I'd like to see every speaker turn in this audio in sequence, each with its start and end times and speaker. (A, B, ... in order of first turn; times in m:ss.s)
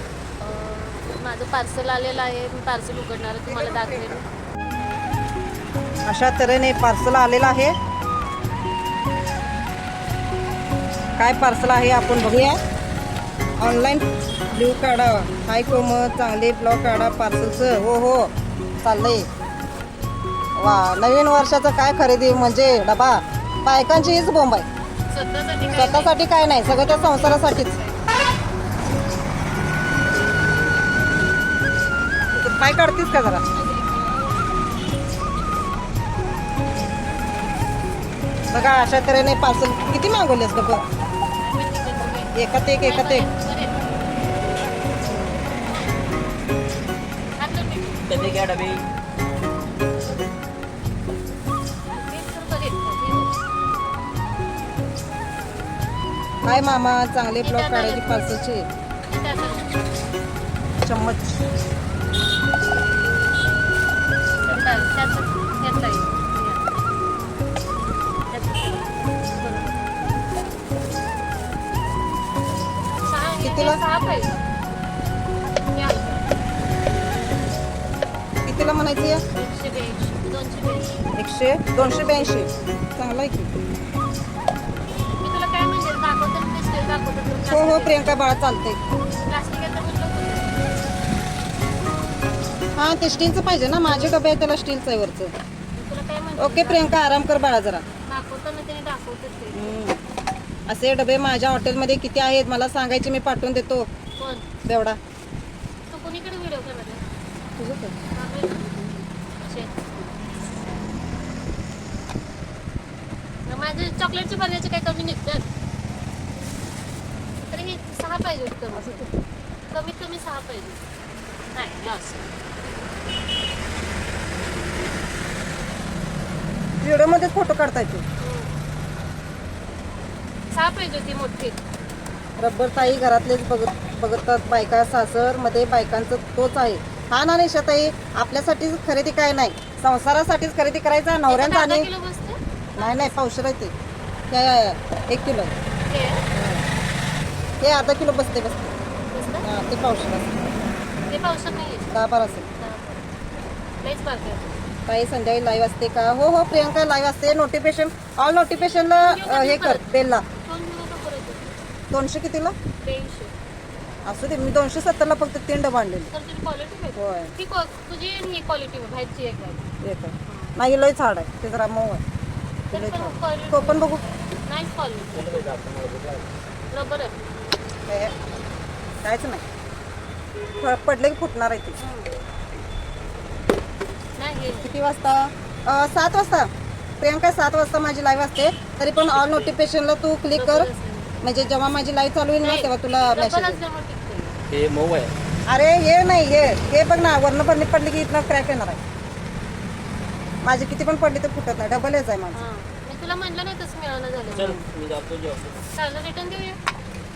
0:00.4-0:04.2 A
0:03.4-0:04.2 B
0:06.1-0:07.7 B
0:11.2-0:12.6 B
0:13.6-0:18.3 B
0:18.8-0:19.3 B
0:20.6-0:24.6 B
0:25.1-0:28.1 A
0:25.7-0:27.7 B
0:32.3-0:33.4 B
0:33.5-0:34.3 A
0:38.5-0:40.8 B
0:41.5-0:43.9 A
0:42.3-0:43.3 B
0:47.4-0:48.1 A
0:48.0-0:48.8 C
0:51.9-0:53.4 A
0:56.4-0:58.6 B
0:57.4-0:58.3 A
0:59.0-0:59.8 A
1:00.8-1:01.2 B
1:04.4-1:06.7 A
1:08.3-1:10.0 A
1:13.0-1:14.4 A
1:13.4-1:13.8 B
1:15.7-1:16.3 A
1:18.4-1:19.2 B
1:19.3-1:21.1 A
1:21.2-1:23.5 B
1:21.8-1:22.7 A
1:25.2-1:28.2 A
1:27.5-1:28.8 B
1:29.1-1:30.5 A
1:32.8-1:35.3 B
1:35.7-1:37.0 A
1:36.4-1:37.8 B
1:38.0-1:39.8 A
1:39.5-1:40.0 B
1:40.7-1:43.9 B
1:44.2-1:44.5 A
1:44.6-1:45.0 B
1:45.9-1:47.0 A
1:47.6-1:47.9 B
1:48.1-1:50.2 A
1:53.4-1:55.5 A
1:57.4-1:59.1 A
1:58.7-1:59.1 B
1:59.7-2:00.8 A
2:01.5-2:02.4 A
2:06.8-2:08.0 B
2:08.2-2:08.6 A
2:10.5-2:11.6 A
2:12.4-2:21.9 B
2:21.3-2:23.2 A
2:22.8-2:23.7 B
2:24.3-2:25.5 B
2:25.9-2:26.2 A
2:26.3-2:26.6 B
2:27.6-2:28.7 B
2:29.1-2:29.4 A
2:29.4-2:30.3 B
2:31.1-2:31.9 A
2:31.9-2:32.5 B
2:32.6-2:33.1 A
2:33.8-2:34.6 A
2:34.9-2:40.2 B
2:38.6-2:41.6 A
2:41.9-2:42.5 B
2:42.8-2:43.3 A
2:44.0-2:46.1 B
2:46.1-2:49.7 A
2:47.0-2:47.3 B
2:49.8-2:52.0 B
2:50.3-2:50.5 A
2:52.7-2:54.0 B
2:52.7-2:53.9 A
2:54.4-2:55.3 A
2:55.1-2:56.3 C
2:56.7-2:57.2 A
2:57.9-2:58.1 B
2:59.0-2:59.4 B
3:00.6-3:01.8 B
3:01.8-3:02.1 A
3:04.2-3:04.7 A
3:04.6-3:06.5 B
3:07.0-3:10.7 B
3:09.2-3:09.6 C
3:10.3-3:11.2 A
3:11.2-3:13.6 B
3:12.4-3:14.4 A
3:14.5-3:15.1 C
3:15.5-3:18.8 B
3:20.4-3:22.4 B
3:22.3-3:24.6 A
3:24.3-3:25.6 C
3:25.7-3:26.6 A